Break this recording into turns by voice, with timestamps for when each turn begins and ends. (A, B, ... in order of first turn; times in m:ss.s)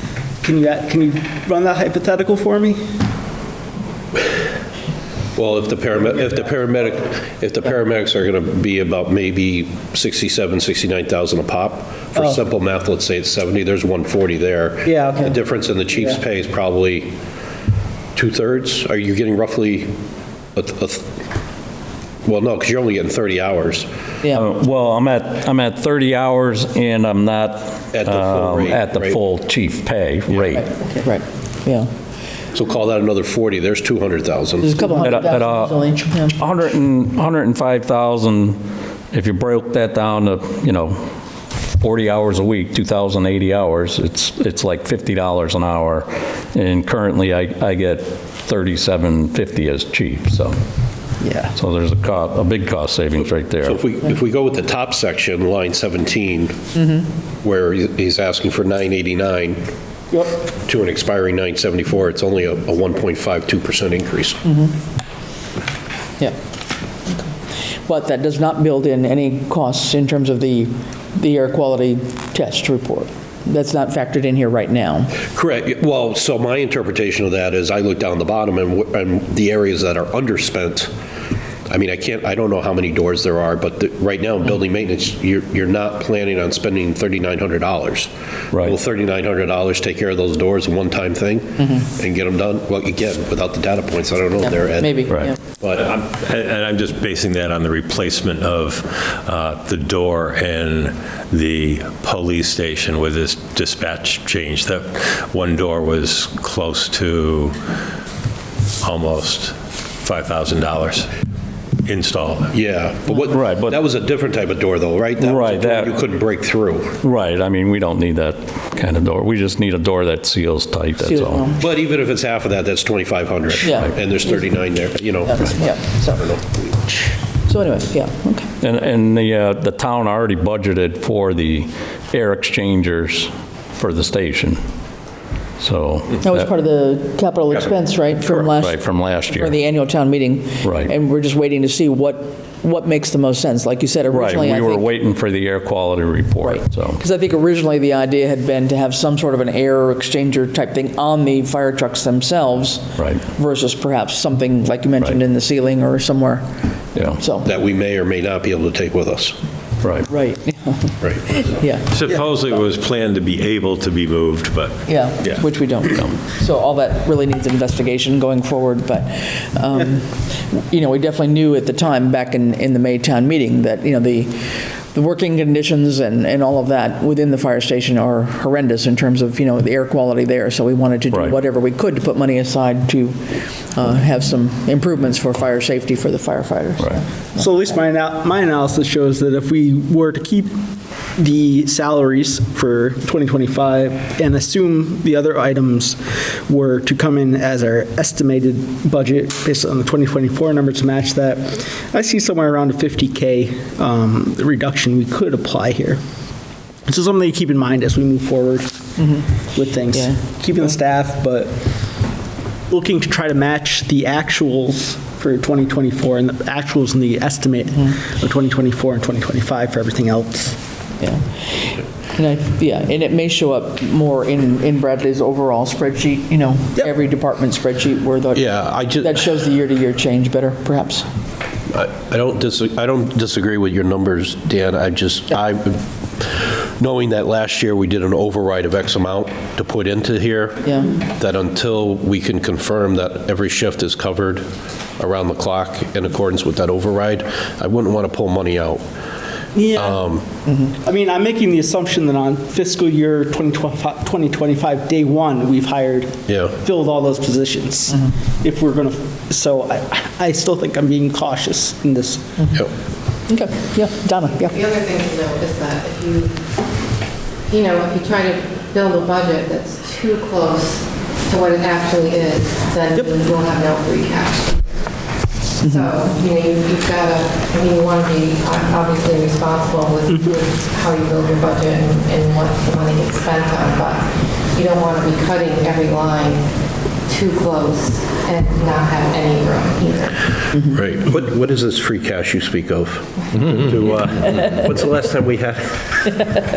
0:00.4-0:02.9 A
0:05.4-0:17.1 B
0:14.8-0:15.3 A
0:18.2-0:19.9 B
0:20.6-0:21.1 B
0:22.2-0:23.9 B
0:24.3-0:30.7 C
0:27.9-0:29.2 B
0:30.6-0:31.9 D
0:32.5-0:34.7 B
0:34.6-0:36.5 D
0:34.9-0:35.8 C
0:36.3-0:38.6 C
0:39.1-0:41.0 C
0:41.8-0:50.5 C
0:51.2-0:51.5 D
0:51.5-0:53.8 C
0:53.6-0:56.6 B
0:56.8-0:57.0 D
0:57.4-0:59.6 B
1:00.6-1:04.4 B
1:04.5-1:04.7 D
1:07.8-1:15.2 D
1:15.3-1:20.9 B
1:21.7-1:28.1 B
1:28.6-1:35.9 B
1:34.4-1:35.4 D
1:35.1-1:35.4 C
1:35.8-1:47.6 E
1:48.8-1:51.1 E
1:51.8-1:52.6 E
1:52.5-1:57.0 B
1:53.1-1:53.8 C
1:55.2-1:55.9 C
1:57.0-2:01.5 C
2:01.0-2:01.6 D
2:01.6-2:06.6 B
2:03.6-2:04.4 D
2:05.3-2:08.5 D
2:08.6-2:14.6 C
2:15.6-2:16.5 C
2:16.2-2:24.9 D
2:18.6-2:19.6 C
2:20.6-2:20.9 C
2:24.1-2:27.0 C
2:26.4-2:36.5 D
2:33.0-2:33.3 C
2:37.0-2:37.2 C
2:37.1-2:37.5 D
2:37.4-2:39.4 B
2:39.8-2:40.1 C
2:40.1-2:41.9 D
2:41.9-2:45.4 E
2:44.9-3:07.1 D
3:07.4-3:10.6 A
3:11.2-3:26.0 A
3:26.9-3:31.6 A
3:32.7-3:40.6 A
3:41.0-3:51.0 D
3:48.3-3:49.2 B
3:51.7-3:55.8 B
3:56.8-4:04.4 B
4:00.6-4:00.9 D
4:05.0-4:08.8 B
4:09.5-4:10.1 A
4:09.8-4:10.2 B
4:10.6-4:22.4 A
4:23.3-4:24.6 D
4:24.5-4:26.4 F
4:27.5-4:34.9 F
4:35.6-4:36.0 D
4:35.6-4:46.5 F
4:47.1-4:50.2 F
4:50.7-4:56.1 B